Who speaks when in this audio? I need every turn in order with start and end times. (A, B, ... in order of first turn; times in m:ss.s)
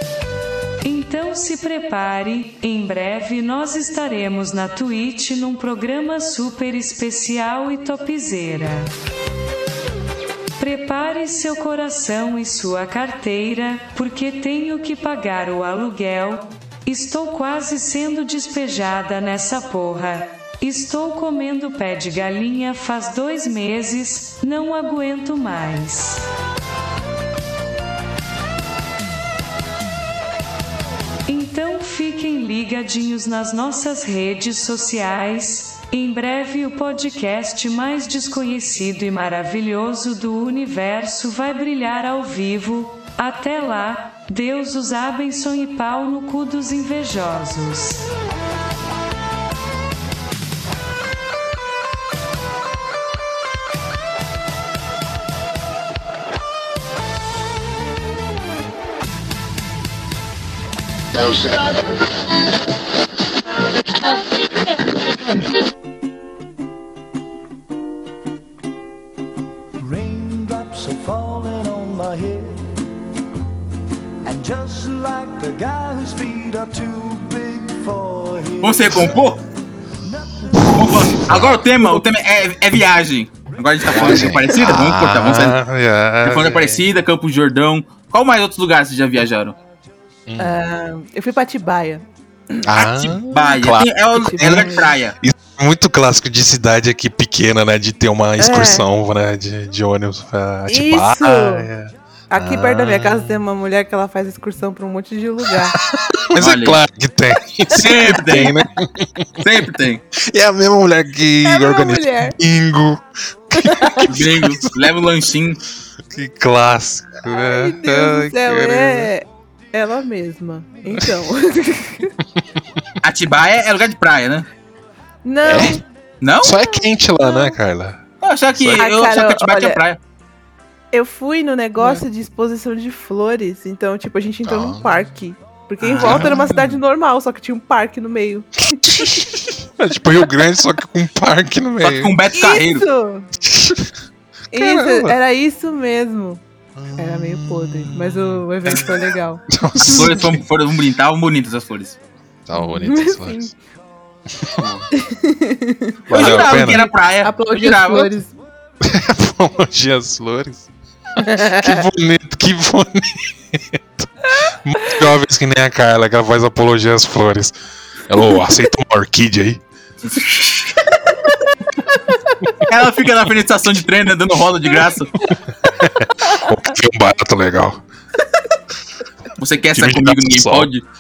0:00.8-0:08.9 A
0:10.6-0:26.3 A
0:31.3-0:48.1 A
1:09.8-1:12.8 B
1:14.2-1:19.1 B
1:18.6-1:19.4 C
1:20.0-1:20.7 B
1:20.6-1:25.6 C
1:20.7-1:21.7 D
1:23.9-1:26.9 D
1:26.2-1:29.6 C
1:30.3-1:30.6 D
1:30.4-1:32.7 E
1:32.6-1:43.4 D
1:32.8-1:35.2 C
1:34.1-1:34.9 E
1:38.4-1:38.9 E
1:40.7-1:41.7 E
1:42.3-1:45.8 E
1:46.0-1:49.3 D
1:46.4-1:46.8 C
1:47.8-1:48.6 C
1:49.4-1:50.0 C
1:50.2-1:54.7 D
1:51.4-1:52.4 E
1:53.6-1:54.0 E
1:54.1-1:55.6 C
1:56.1-1:59.1 D
1:57.3-2:02.1 E
2:03.0-2:04.5 C
2:05.2-2:05.8 E
2:05.4-2:05.8 D
2:06.2-2:06.6 C
2:06.4-2:08.0 D
2:06.6-2:07.6 E
2:08.2-2:10.0 C
2:08.6-2:08.8 D
2:08.8-2:09.8 E
2:10.9-2:19.3 E
2:14.5-2:14.9 D
2:15.8-2:16.5 C
2:16.0-2:16.8 D
2:18.8-2:22.2 D
2:21.8-2:22.8 C
2:22.3-2:23.3 E
2:23.4-2:23.9 D
2:24.5-2:26.4 E
2:24.5-2:25.2 D
2:26.8-2:28.9 D
2:27.0-2:29.4 E
2:29.5-2:30.4 D
2:29.8-2:32.0 C
2:32.5-2:33.5 D
2:32.5-2:33.5 E
2:34.4-2:34.8 D
2:35.0-2:38.3 E
2:36.1-2:36.9 D
2:36.1-2:38.1 C
2:38.8-2:40.7 D
2:41.2-2:41.8 E
2:41.4-2:44.1 D
2:44.6-2:47.6 D
2:48.1-2:49.6 D
2:50.0-2:50.8 C
2:52.7-2:55.2 C
2:55.8-2:57.8 D
2:59.4-3:00.8 C
2:59.7-3:00.7 D